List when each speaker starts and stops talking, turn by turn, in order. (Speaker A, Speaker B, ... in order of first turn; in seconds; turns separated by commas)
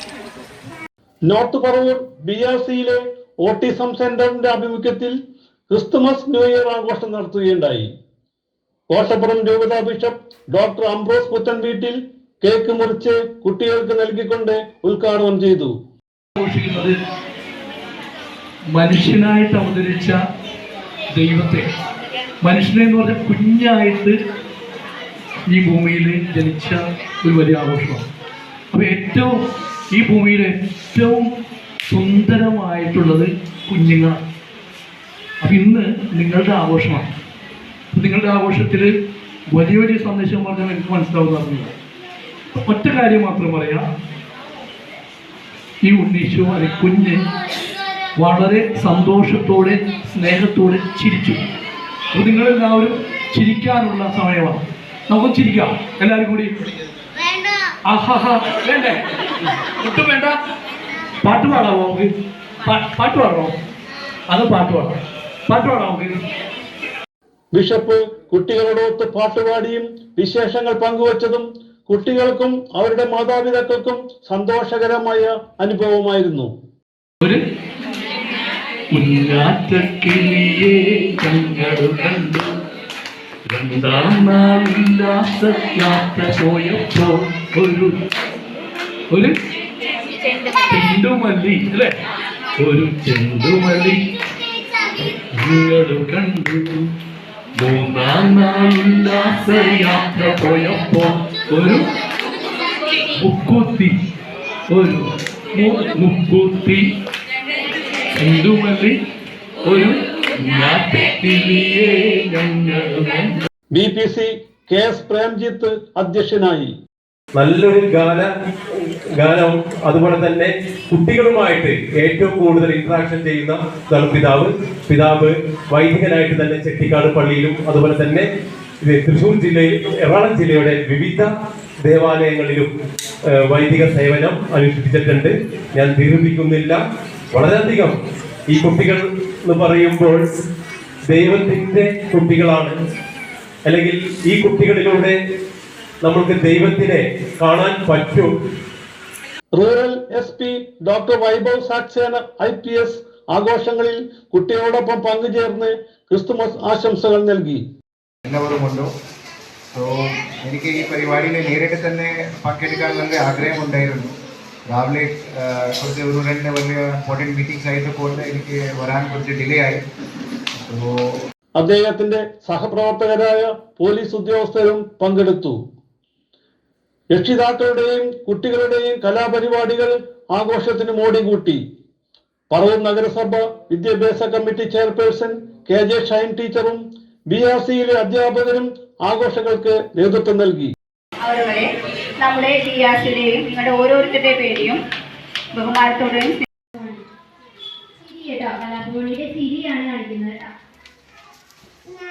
Speaker A: 1.3-5.2, Speaker A: 5.7-7.9, Speaker A: 8.9-15.7, Speaker B: 16.4-16.9, Speaker B: 18.7-20.2, Speaker B: 21.1-21.7, Speaker B: 22.4-24.1, Speaker B: 25.5-28.1, Speaker B: 28.7-29.3, Speaker B: 29.9-31.3, Speaker B: 31.9-34.2, Speaker B: 35.4-37.1, Speaker B: 37.9-38.9, Speaker B: 39.5-41.7, Speaker B: 42.7-43.9, Speaker B: 45.8-47.2, Speaker B: 48.2-51.4, Speaker B: 52.1-56.5, Speaker B: 57.9-59.0, Speaker B: 59.8-60.4, Speaker B: 61.2-62.1, Speaker B: 62.6-63.5, Speaker B: 64.3-66.2, Speaker A: 67.5-76.5, Speaker B: 78.9-82.6, Speaker B: 83.5-88.0, Speaker B: 90.7-91.9, Speaker B: 92.6-94.0, Speaker B: 95.4-96.8, Speaker B: 97.6-101.8, Speaker B: 103.2-103.9, Speaker B: 104.7-106.8, Speaker B: 108.2-108.9, Speaker B: 109.7-113.3, Speaker A: 113.7-116.7, Speaker C: 117.4-128.3, Speaker C: 128.9-131.3, Speaker C: 131.8-132.7, Speaker C: 133.5-136.8, Speaker C: 137.3-138.0, Speaker C: 138.5-140.2, Speaker C: 141.1-142.7, Speaker C: 143.7-145.2, Speaker C: 146.0-148.3, Speaker A: 149.6-157.6, Speaker D: 158.2-158.9, Speaker D: 160.4-164.1, Speaker D: 164.7-169.8, Speaker D: 170.6-170.9, Speaker A: 171.6-175.6, Speaker A: 177.1-181.6, Speaker A: 182.5-190.7, Speaker E: 191.2-191.7, Speaker E: 192.2-194.8, Speaker E: 195.6-196.5, Speaker F: 196.8-197.0, Speaker F: 198.0-200.5